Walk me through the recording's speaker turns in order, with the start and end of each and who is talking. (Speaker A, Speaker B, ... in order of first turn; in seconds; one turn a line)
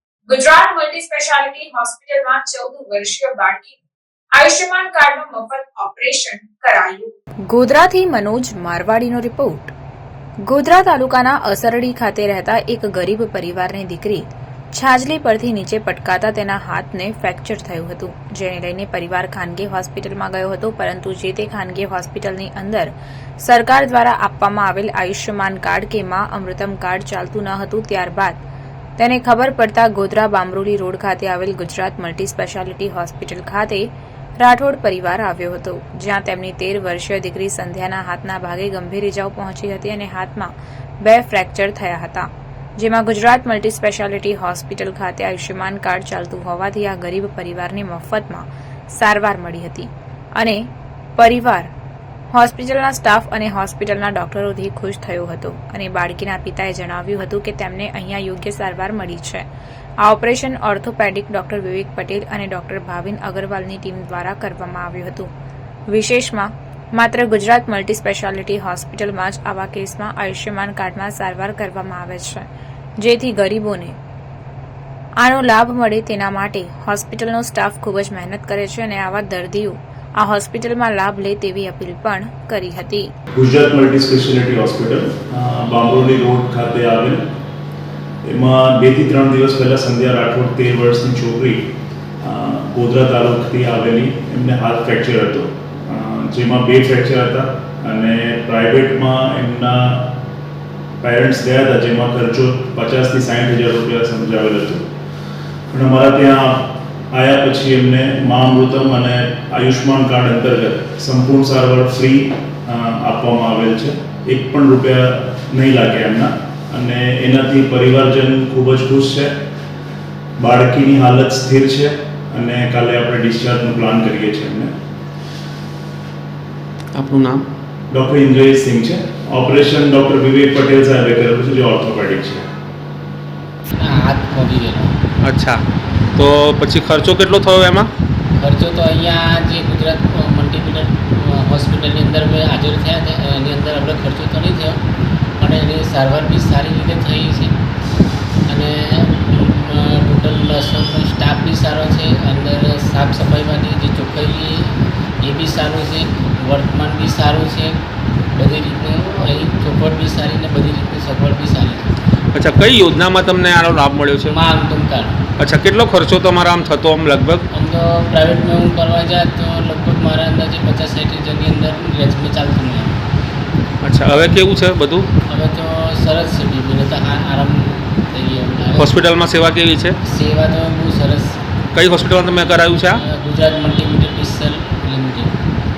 Speaker A: 0.3-3.8
Speaker A: 4.3-7.1
Speaker B: 7.5-9.7
Speaker B: 10.4-28.4
Speaker B: 29.0-33.9
Speaker B: 34.4-51.7
Speaker B: 52.3-59.5
Speaker B: 60.0-65.3
Speaker B: 65.9-72.5
Speaker B: 73.0-74.0
Speaker B: 75.2-83.1
Speaker C: 83.4-87.2
Speaker C: 88.3-91.7
Speaker C: 92.2-100.2
Speaker C: 101.0-104.8
Speaker C: 105.7-119.3
Speaker C: 120.4-124.7
Speaker D: 127.0-127.4
Speaker C: 127.9-132.4
Speaker E: 133.8-134.9
Speaker D: 135.2-135.6
Speaker D: 136.2-137.9
Speaker E: 138.4-144.8
Speaker E: 145.4-147.6
Speaker E: 148.5-157.8
Speaker E: 158.3-161.9
Speaker D: 162.3-164.3
Speaker E: 164.3-165.2
Speaker D: 165.4-167.4
Speaker E: 167.5-173.0
Speaker D: 173.8-175.1
Speaker E: 175.3-178.9
Speaker D: 178.8-179.9
Speaker E: 180.0-181.4
Speaker D: 181.7-183.0
Speaker E: 183.0-185.3